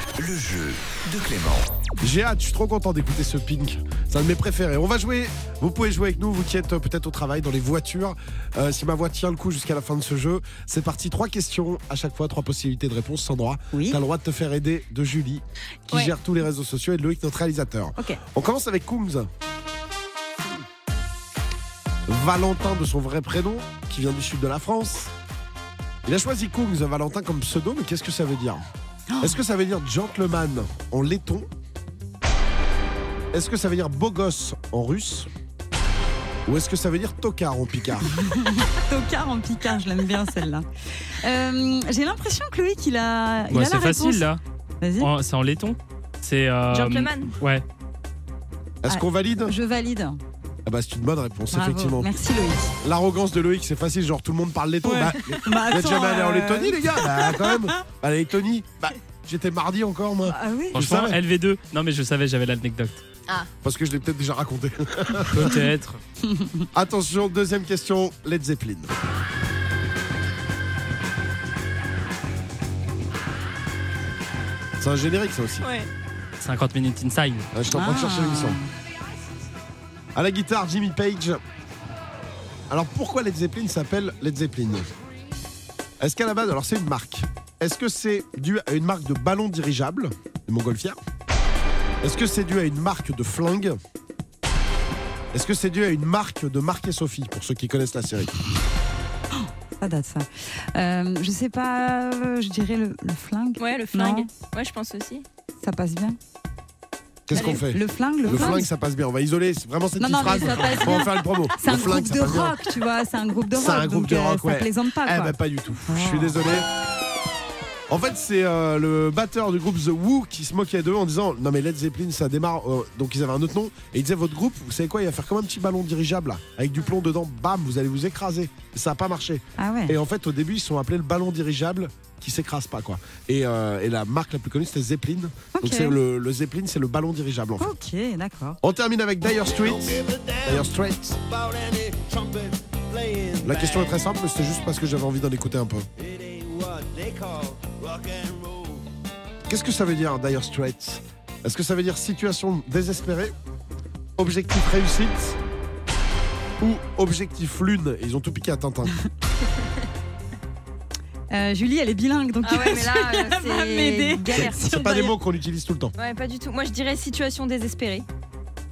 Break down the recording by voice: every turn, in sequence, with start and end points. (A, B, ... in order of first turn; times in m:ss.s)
0:00.2-0:01.7 A
0:02.0-0:19.3 B
0:13.7-0:14.0 C
0:22.1-0:25.1 B
0:26.0-0:28.6 B
0:29.2-0:31.5 B
0:33.3-0:35.3 B
0:36.5-0:38.1 B
0:38.1-0:40.7 C
0:41.2-0:44.3 C
0:43.5-0:44.4 D
0:44.8-0:45.1 C
0:45.0-0:47.6 D
0:46.7-0:47.4 E
0:48.8-0:49.5 B
0:48.9-0:50.2 C
0:50.6-0:52.1 B
0:51.5-0:52.7 C
0:52.8-1:01.2 B
0:54.8-0:57.8 C
1:00.3-1:00.8 C
1:00.7-1:03.0 D
1:03.6-1:05.6 B
1:05.3-1:06.0 D
1:06.3-1:06.7 C
1:06.7-1:08.9 B
1:14.8-1:15.7 B
1:15.6-1:15.9 E
1:16.4-1:17.5 D
1:17.5-1:18.6 B
1:17.7-1:18.7 C
1:20.2-1:21.4 B
1:22.7-1:24.9 B
1:26.0-1:31.0 B
1:32.0-1:33.8 B
1:35.3-1:38.3 B
1:39.4-1:44.3 C
1:43.6-1:45.2 E
1:45.6-1:46.2 C
1:47.3-1:52.6 B
1:47.3-1:48.7 C
1:50.0-1:55.4 C
1:53.5-1:56.7 B
1:55.9-1:56.4 C
1:57.9-2:17.7 B
2:09.6-2:10.0 C
2:15.6-2:16.0 C
2:17.6-2:18.6 C
2:18.6-2:21.2 B
2:19.4-2:24.0 A
2:23.4-2:25.9 B
2:26.0-2:28.8 A
2:29.5-2:33.4 B
2:34.2-2:35.4 B
2:36.6-2:39.0 B
2:41.3-2:45.2 C
2:42.4-2:44.6 E
2:44.4-2:46.0 B
2:46.0-2:48.1 E